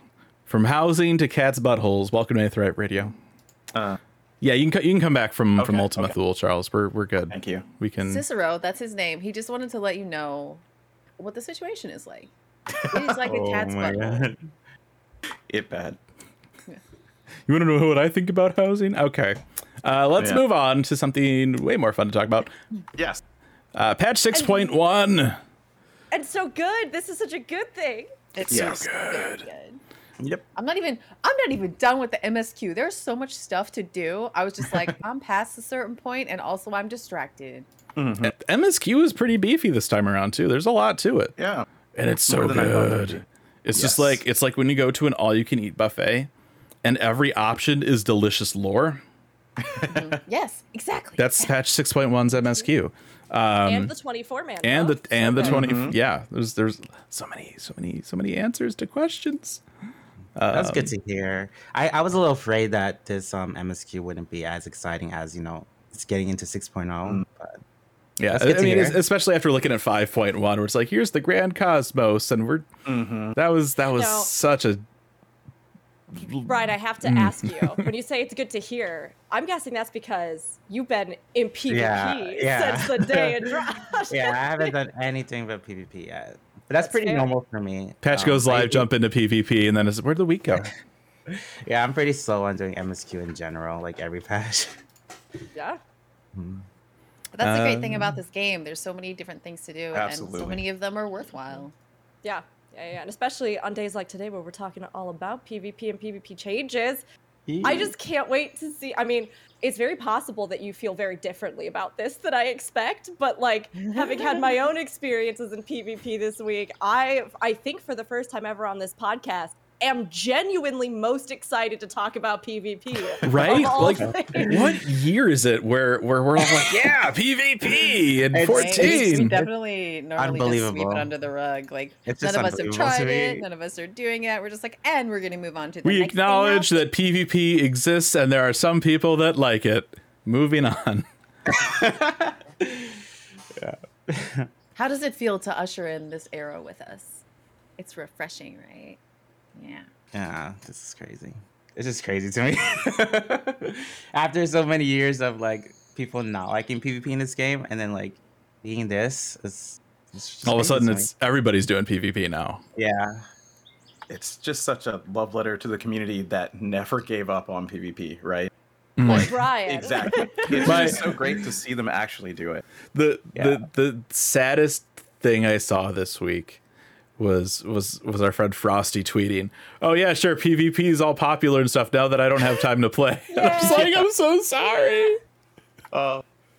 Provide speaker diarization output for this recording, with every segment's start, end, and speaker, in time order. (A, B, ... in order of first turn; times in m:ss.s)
0:00.5-0:03.1 A
0:04.4-0:08.2 A
0:05.6-0:06.1 B
0:07.3-0:07.6 B
0:08.0-0:10.6 C
0:11.2-0:12.3 C
0:12.8-0:13.2 B
0:12.9-0:14.2 C
0:13.2-0:14.4 D
0:15.5-0:16.0 B
0:17.5-0:22.5 A
0:22.9-0:23.2 B
0:23.7-0:25.4 A
0:24.3-0:24.8 E
0:26.1-0:28.1 E
0:28.3-0:29.8 C
0:28.5-0:29.4 A
0:28.5-0:28.8 B
0:30.6-0:37.7 C
0:38.0-0:38.3 B
0:38.2-0:41.4 A
0:41.4-0:41.6 B
0:41.9-0:46.3 A
0:42.3-0:44.2 B
0:46.8-0:49.0 A
0:49.6-0:50.2 B
0:49.9-0:51.5 C
0:51.2-0:53.9 A
0:53.6-0:55.6 E
0:54.6-0:59.6 A
0:55.4-0:56.0 B
1:00.4-1:00.9 A
1:00.5-1:07.6 D
1:08.2-1:12.7 A
1:08.3-1:09.0 D
1:12.8-1:13.4 B
1:13.3-1:14.8 A
1:13.9-1:14.3 E
1:16.1-1:17.8 A
1:16.4-1:24.7 E
1:21.7-1:23.4 D
1:24.1-1:28.9 D
1:26.8-1:27.3 E
1:28.0-1:30.6 A
1:31.3-1:34.8 D
1:35.5-1:35.8 E
1:36.3-1:36.7 D
1:37.3-1:41.7 C
1:37.4-1:38.1 A
1:39.9-1:40.6 B
1:42.2-1:47.0 E
1:47.5-1:47.9 D
1:47.6-2:04.6 E
2:03.2-2:09.3 A
2:04.0-2:04.7 D
2:06.4-2:06.9 D
2:07.7-2:09.5 D
2:08.5-2:16.8 C
2:10.1-2:11.1 D
2:12.0-2:13.4 D
2:15.8-2:21.0 A
2:21.5-2:23.0 D
2:23.6-2:24.5 D
2:24.8-2:27.2 C
2:27.8-2:29.0 C
2:29.5-2:29.9 C
2:30.1-2:41.1 D
2:40.4-2:42.6 A
2:42.8-2:43.2 D
2:44.1-2:48.5 B
2:49.0-2:49.4 A
2:49.0-2:52.6 B
2:49.0-2:50.4 E
2:50.6-2:51.1 A
2:50.6-2:51.4 D
2:52.9-2:56.6 A
2:53.4-2:53.6 D
2:57.2-3:05.2 A
3:03.3-3:04.1 E
3:04.6-3:05.2 E
3:05.9-3:06.2 B